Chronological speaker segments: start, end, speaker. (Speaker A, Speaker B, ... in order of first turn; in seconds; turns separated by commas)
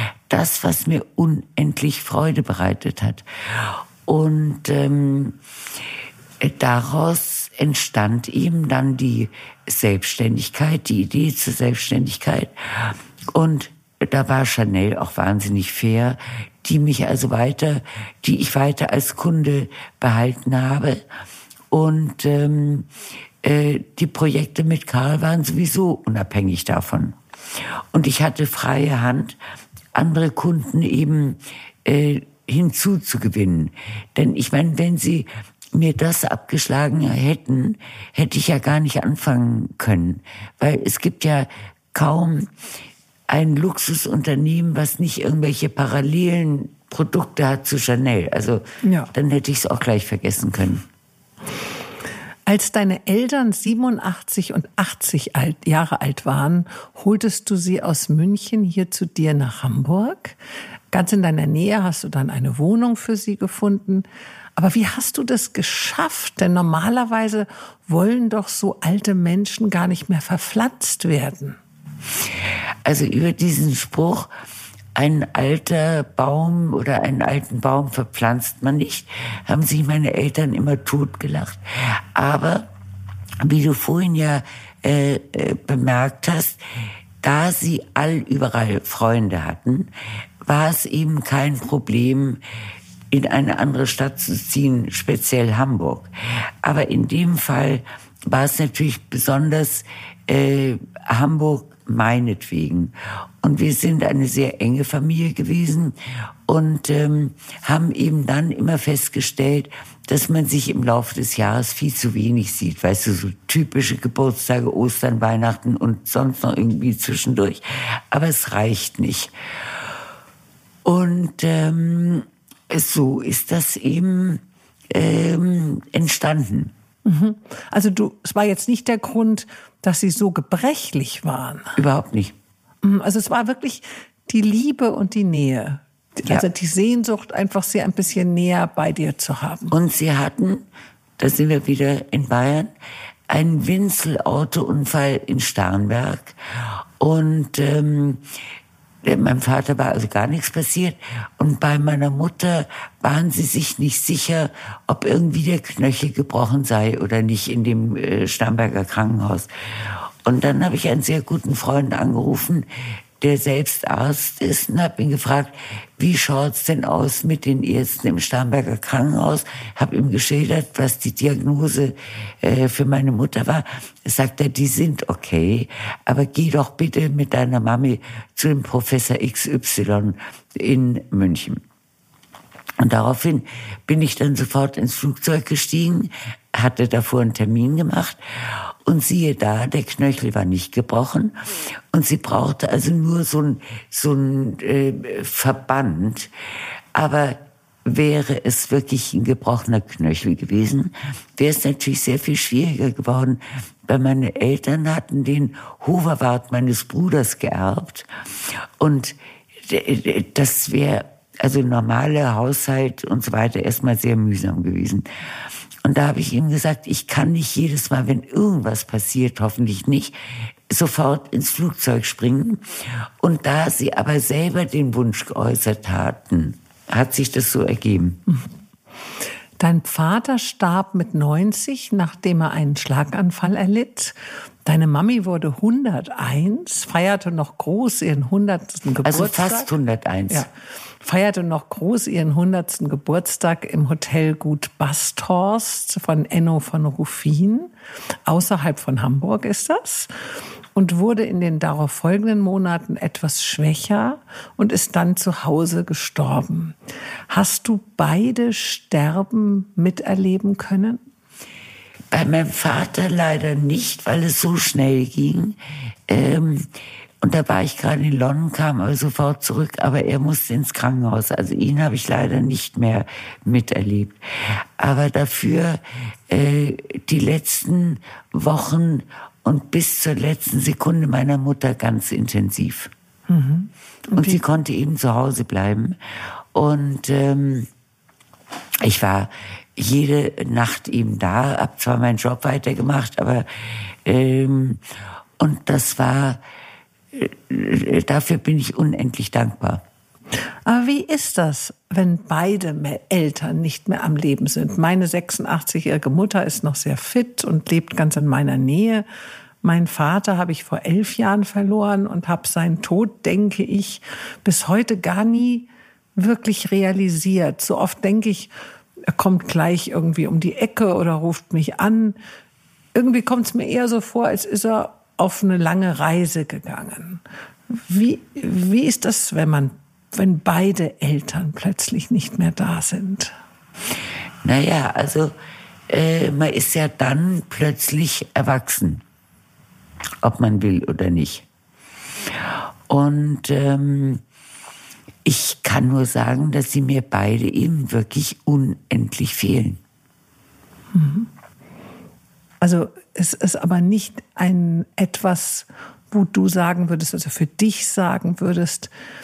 Speaker A: 0.3-5.4, Speaker A: 6.4-21.0, Speaker A: 21.7-22.9, Speaker A: 23.4-27.2, Speaker A: 27.9-29.4, Speaker A: 29.9-42.5, Speaker A: 43.3-50.8, Speaker B: 48.8-49.1, Speaker B: 52.5-60.4, Speaker B: 60.9-71.6, Speaker A: 72.8-74.3, Speaker A: 75.0-82.7, Speaker A: 83.4-86.6, Speaker A: 87.2-89.9, Speaker A: 90.4-92.4, Speaker A: 93.1-96.1, Speaker A: 96.6-106.0, Speaker A: 106.5-119.3, Speaker A: 120.8-126.7, Speaker B: 127.0-131.8, Speaker A: 131.8-132.3, Speaker B: 132.8-139.7, Speaker A: 139.7-140.7, Speaker A: 141.2-142.7, Speaker A: 143.3-146.4, Speaker A: 147.0-148.2, Speaker A: 149.0-159.5, Speaker A: 160.2-162.7, Speaker A: 163.2-181.6, Speaker A: 182.8-188.2, Speaker A: 188.8-191.4, Speaker A: 191.9-196.3, Speaker A: 196.9-208.1, Speaker A: 208.8-215.1, Speaker A: 215.8-220.1, Speaker A: 220.7-222.6, Speaker A: 223.2-228.2, Speaker B: 229.6-239.7, Speaker A: 239.0-240.5, Speaker B: 241.0-247.7, Speaker B: 248.3-250.1, Speaker B: 250.7-256.8, Speaker B: 257.3-261.0, Speaker A: 262.1-265.6, Speaker A: 266.1-266.7, Speaker A: 267.2-282.9, Speaker B: 283.3-284.4, Speaker A: 284.1-286.0, Speaker A: 286.5-287.7, Speaker A: 288.8-293.5, Speaker A: 294.1-294.8, Speaker A: 295.4-296.4, Speaker A: 297.1-299.8, Speaker B: 300.6-309.1, Speaker B: 309.6-318.5, Speaker B: 319.1-322.2, Speaker B: 322.9-333.3, Speaker A: 334.4-335.3, Speaker A: 335.9-339.0, Speaker A: 340.2-341.4, Speaker A: 342.9-344.2, Speaker A: 345.2-349.8, Speaker B: 350.9-351.3, Speaker B: 352.6-358.9